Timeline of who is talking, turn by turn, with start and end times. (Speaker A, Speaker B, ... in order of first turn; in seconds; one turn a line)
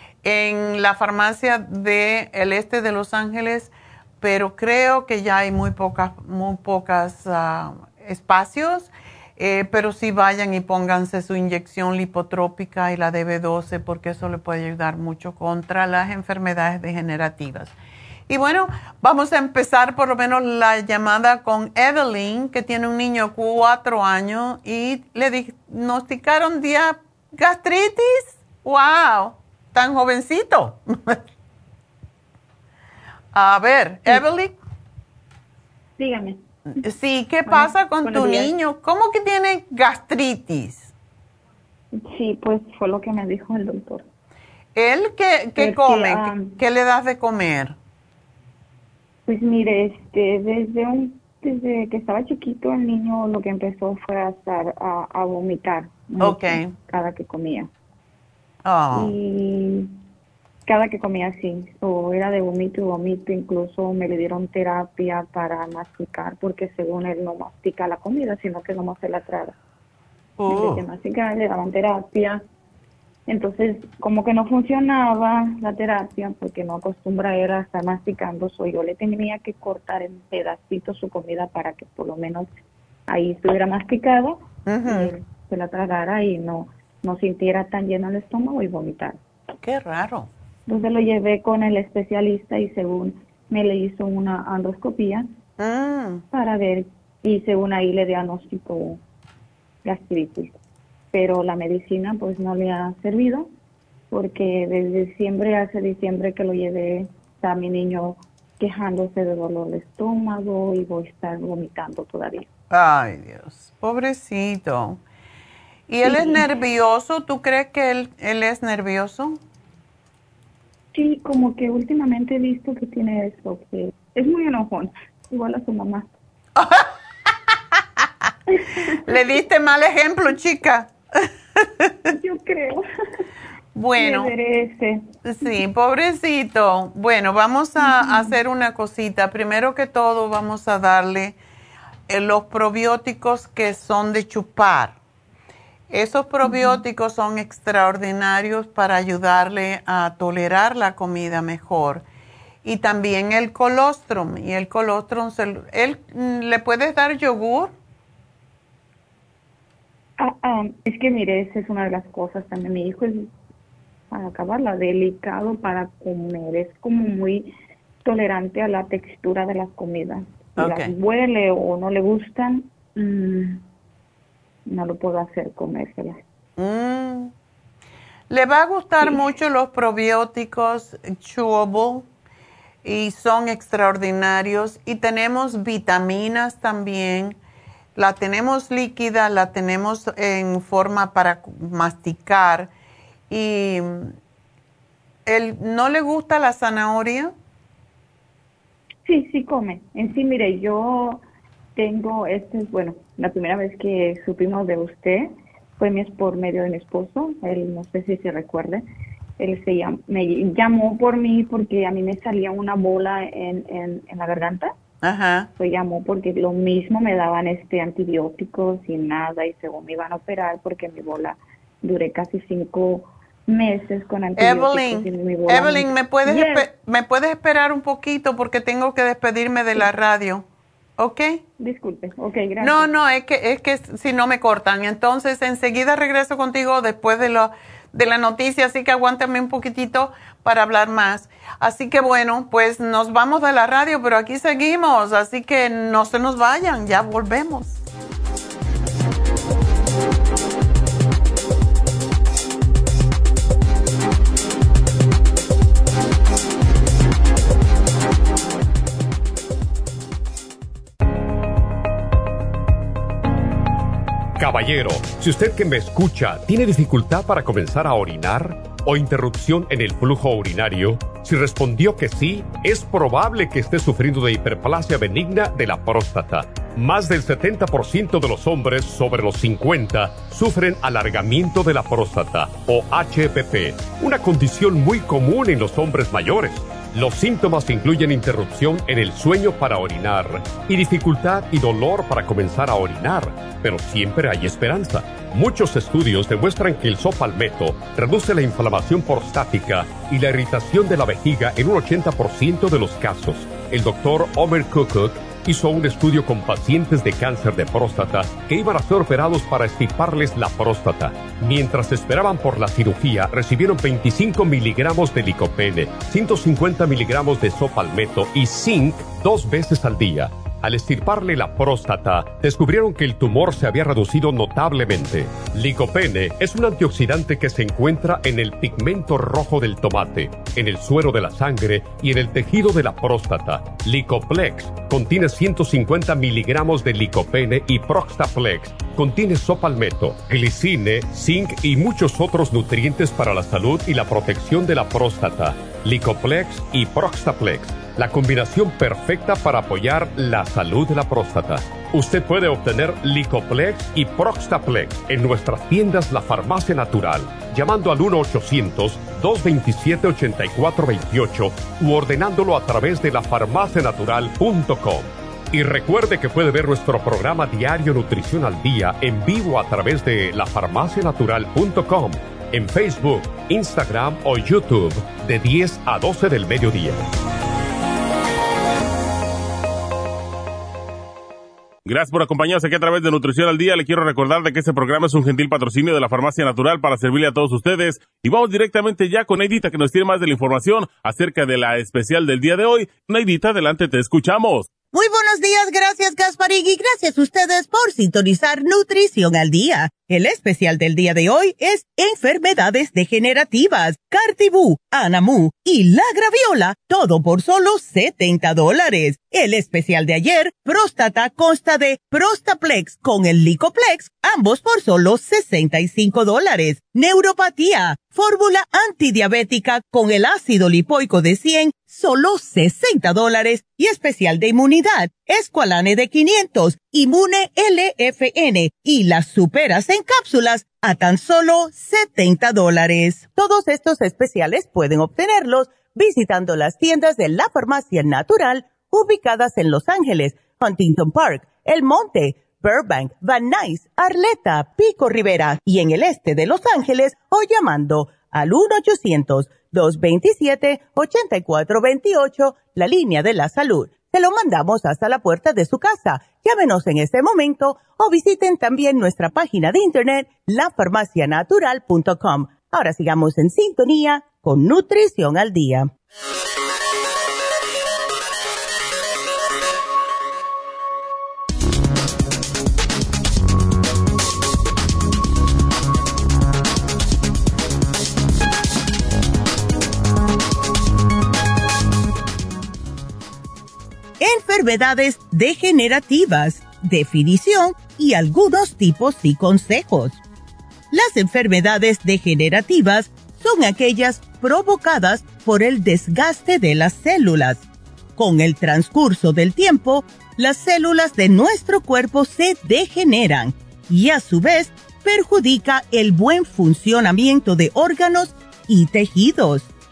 Speaker A: 0.2-17.7
Speaker A: 18.3-31.2
Speaker A: 33.3-34.5
Speaker B: 36.0-36.4
Speaker A: 36.8-40.9
Speaker B: 37.5-38.5
Speaker B: 41.9-44.1
Speaker A: 44.8-47.8
Speaker B: 45.6-46.6
Speaker B: 49.3-57.7
Speaker A: 56.2-56.7
Speaker A: 58.6-59.1
Speaker B: 58.9-60.0
Speaker B: 60.6-69.6
Speaker A: 70.4-70.8
Speaker B: 70.5-72.4
Speaker B: 73.3-82.5
Speaker B: 83.1-89.2
Speaker A: 84.7-85.1
Speaker A: 89.6-90.3
Speaker B: 90.7-95.3
Speaker A: 95.6-96.2
Speaker B: 96.3-99.0
Speaker B: 99.8-100.6
Speaker B: 101.1-103.5
Speaker B: 104.1-112.5
Speaker A: 112.7-115.0
Speaker A: 115.9-119.4
Speaker B: 116.0-116.5
Speaker B: 120.9-126.1
Speaker A: 126.6-126.9
Speaker B: 128.8-129.2
Speaker A: 129.0-131.9
Speaker B: 132.1-132.8
Speaker A: 133.7-134.3
Speaker B: 134.0-135.0
Speaker A: 135.2-141.4
Speaker B: 137.8-138.3
Speaker A: 142.1-145.0
Speaker A: 145.9-152.0
Speaker B: 146.4-146.8
Speaker A: 152.6-157.7
Speaker B: 160.2-163.3
Speaker B: 164.1-167.5
Speaker B: 168.0-173.6
Speaker A: 170.6-170.9
Speaker B: 174.7-176.2
Speaker A: 176.6-177.3
Speaker A: 178.3-182.1
Speaker A: 182.8-187.4
Speaker A: 187.9-192.7
Speaker A: 193.3-194.1
Speaker A: 195.3-197.3
Speaker B: 199.1-201.2
Speaker B: 201.8-208.8
Speaker B: 209.4-214.7
Speaker A: 215.0-215.5
Speaker B: 215.6-226.7
Speaker A: 224.4-230.4
Speaker A: 231.0-231.4
Speaker B: 231.6-232.9
Speaker A: 232.6-247.8
Speaker C: 264.4-377.1
Speaker D: 381.9-394.7
Speaker E: 394.9-465.9
Speaker E: 484.2-490.2
Speaker E: 490.9-497.7
Speaker E: 498.2-509.7